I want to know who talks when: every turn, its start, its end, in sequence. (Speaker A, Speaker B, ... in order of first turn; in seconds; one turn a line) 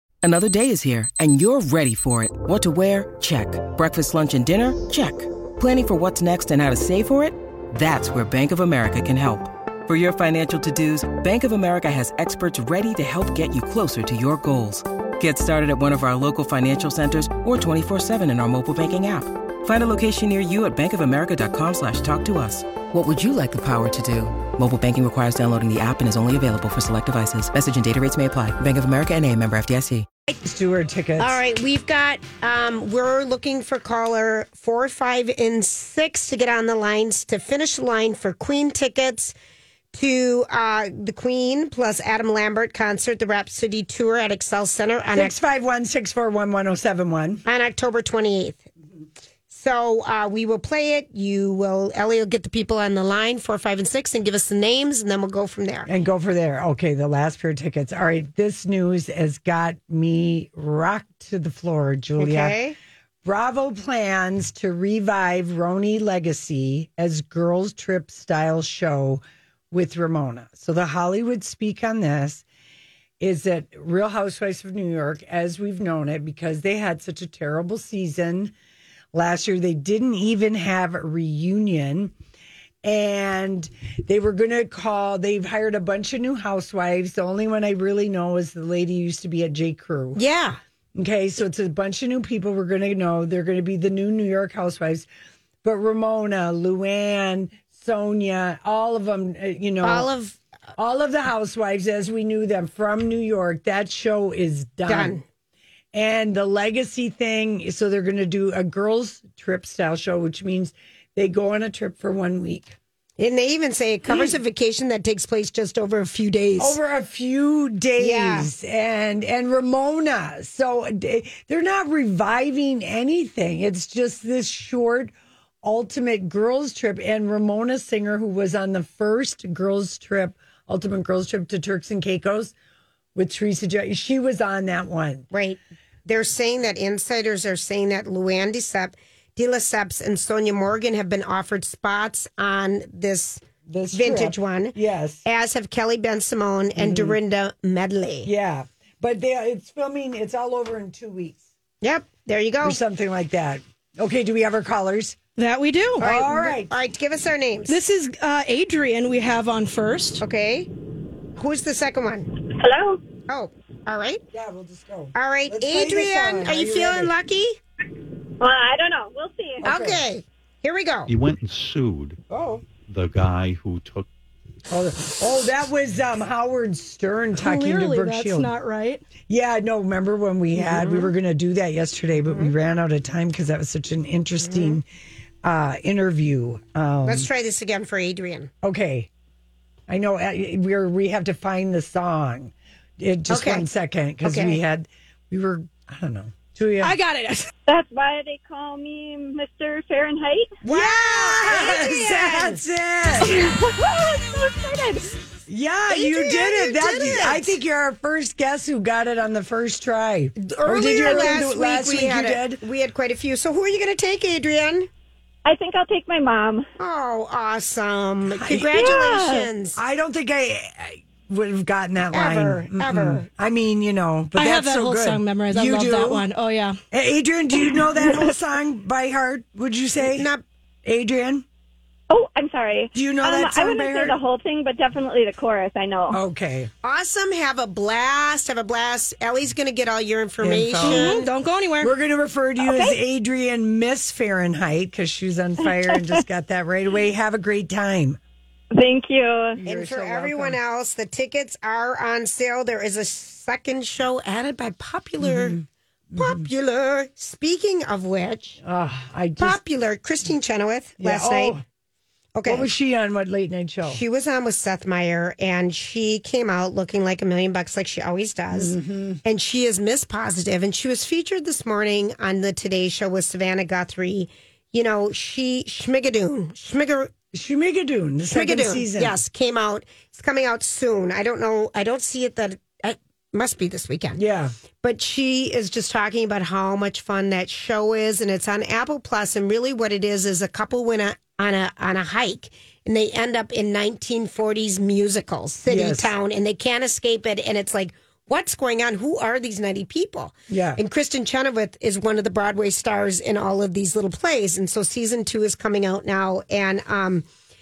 Speaker A: 0.2-30.1
Speaker B: 30.4-31.4
Speaker C: 31.2-39.3
Speaker C: 39.9-45.3
Speaker B: 45.1-47.4
Speaker C: 47.4-48.6
Speaker C: 49.5-55.9
Speaker B: 55.9-62.6
Speaker C: 62.2-62.7
Speaker B: 63.2-72.4
Speaker B: 73.2-78.5
Speaker B: 79.1-82.1
Speaker B: 82.8-90.2
Speaker C: 90.2-90.6
Speaker B: 90.9-95.1
Speaker B: 95.6-100.1
Speaker C: 99.8-100.4
Speaker B: 100.8-105.2
Speaker C: 104.9-105.2
Speaker B: 105.9-112.8
Speaker C: 113.2-116.8
Speaker B: 114.0-114.4
Speaker B: 116.6-132.5
Speaker C: 118.0-118.5
Speaker B: 133.1-135.3
Speaker C: 135.3-148.3
Speaker B: 143.7-145.2
Speaker B: 146.8-147.2
Speaker B: 148.2-151.4
Speaker C: 151.8-152.8
Speaker B: 152.6-155.2
Speaker D: 155.4-156.1
Speaker C: 156.0-157.8
Speaker B: 156.0-156.7
Speaker D: 157.7-160.2
Speaker C: 160.2-160.7
Speaker C: 161.4-162.3
Speaker E: 162.3-163.0
Speaker C: 163.3-164.2
Speaker B: 164.3-167.1
Speaker C: 165.1-167.6
Speaker E: 168.4-169.6
Speaker B: 169.6-170.0
Speaker C: 169.6-171.1
Speaker F: 171.1-174.1
Speaker B: 172.3-172.7
Speaker B: 174.7-178.5
Speaker D: 177.4-179.0
Speaker B: 179.2-184.8
Speaker C: 180.5-181.1
Speaker C: 182.2-182.5
Speaker C: 184.4-184.8
Speaker B: 185.4-187.3
Speaker C: 187.0-188.5
Speaker B: 188.6-189.1
Speaker B: 189.9-197.0
Speaker C: 193.3-193.7
Speaker C: 194.2-194.6
Speaker D: 196.8-197.5
Speaker E: 197.7-200.5
Speaker C: 200.6-202.6
Speaker B: 200.7-203.5
Speaker D: 203.2-205.2
Speaker B: 205.5-212.6
Speaker C: 205.9-207.5
Speaker C: 210.4-214.9
Speaker D: 211.0-211.3
Speaker E: 215.4-216.7
Speaker C: 216.8-219.8
Speaker B: 218.3-219.0
Speaker D: 218.7-219.5
Speaker B: 219.8-226.2
Speaker C: 222.1-223.3
Speaker D: 224.3-226.8
Speaker B: 226.9-230.3
Speaker C: 230.0-230.4
Speaker B: 230.8-231.4
Speaker E: 232.1-236.2
Speaker B: 232.9-234.2
Speaker B: 236.1-236.7
Speaker C: 236.8-241.3
Speaker B: 240.4-241.2
Speaker D: 240.8-241.9
Speaker B: 241.8-248.2
Speaker E: 242.7-243.0
Speaker E: 245.9-246.2
Speaker E: 248.7-249.6
Speaker B: 249.6-250.6
Speaker C: 249.7-255.6
Speaker B: 255.2-256.5
Speaker C: 256.2-258.6
Speaker B: 258.6-259.6
Speaker C: 259.4-261.6
Speaker B: 261.0-261.6
Speaker C: 262.3-262.7
Speaker B: 262.4-264.0
Speaker C: 263.8-277.1
Speaker B: 268.5-269.2
Speaker B: 277.3-279.2
Speaker C: 278.3-284.2
Speaker B: 284.1-284.5
Speaker C: 284.8-307.2
Speaker B: 295.7-296.1
Speaker B: 300.5-300.8